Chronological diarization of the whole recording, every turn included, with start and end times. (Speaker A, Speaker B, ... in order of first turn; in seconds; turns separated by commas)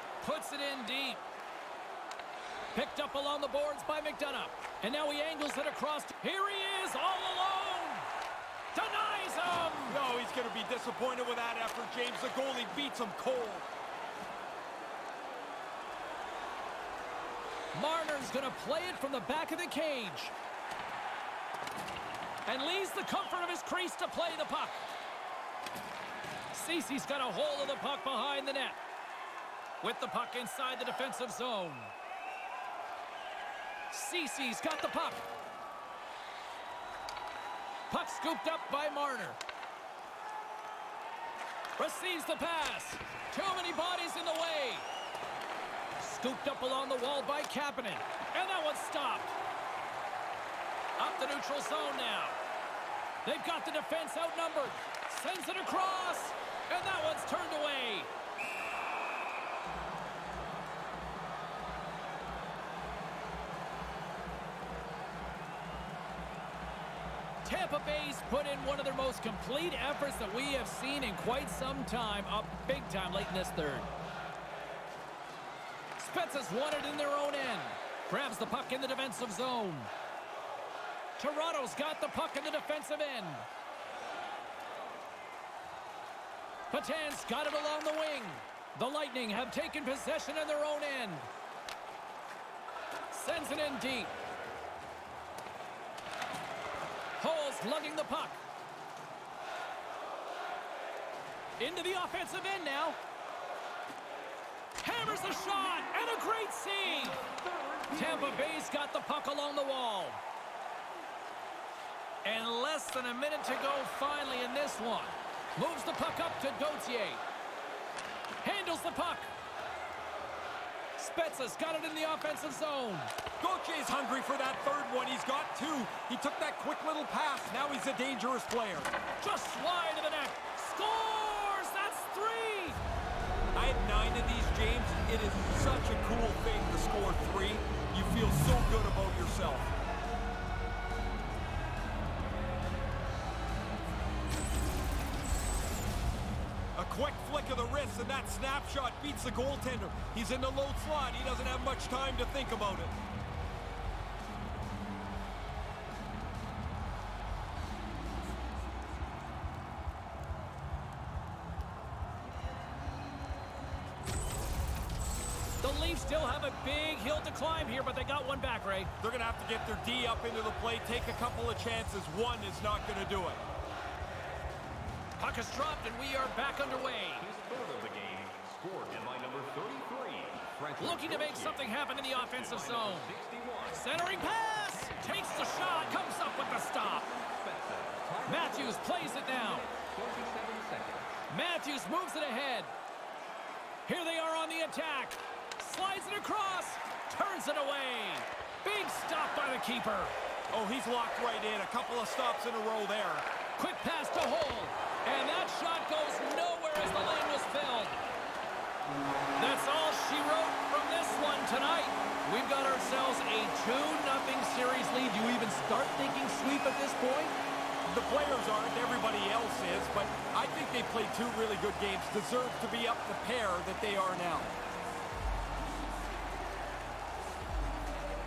Speaker A: 0.2-1.2, Speaker A: 2.7-8.1, Speaker A: 8.7-10.0, Speaker B: 9.9-13.7, Speaker A: 17.7-20.3, Speaker A: 22.4-24.8, Speaker A: 26.5-28.8, Speaker A: 29.8-31.9, Speaker A: 33.9-35.2, Speaker A: 37.9-39.4, Speaker A: 41.8-44.9, Speaker A: 46.0-49.3, Speaker A: 51.0-52.4, Speaker A: 53.2-58.1, Speaker A: 67.4-73.9, Speaker A: 76.0-79.9, Speaker A: 81.2-83.5, Speaker A: 86.7-91.3, Speaker A: 93.1-94.1, Speaker A: 97.2-98.4, Speaker A: 101.6-103.0, Speaker A: 104.8-107.2, Speaker C: 106.8-108.6, Speaker A: 107.9-110.2, Speaker A: 112.2-117.2, Speaker A: 118.4-119.3, Speaker A: 121.0-123.1, Speaker B: 123.4-128.9, Speaker A: 129.2-132.8, Speaker B: 133.5-139.7, Speaker B: 146.8-152.9, Speaker A: 165.6-168.9, Speaker B: 169.0-173.4, Speaker A: 175.2-177.2, Speaker C: 177.2-183.9, Speaker A: 180.8-183.1, Speaker A: 183.7-187.1, Speaker C: 187.1-191.2, Speaker A: 188.3-189.7, Speaker A: 191.3-192.7, Speaker A: 193.8-200.1, Speaker B: 200.5-203.2, Speaker A: 203.6-208.0, Speaker A: 209.4-217.3, Speaker B: 217.9-224.6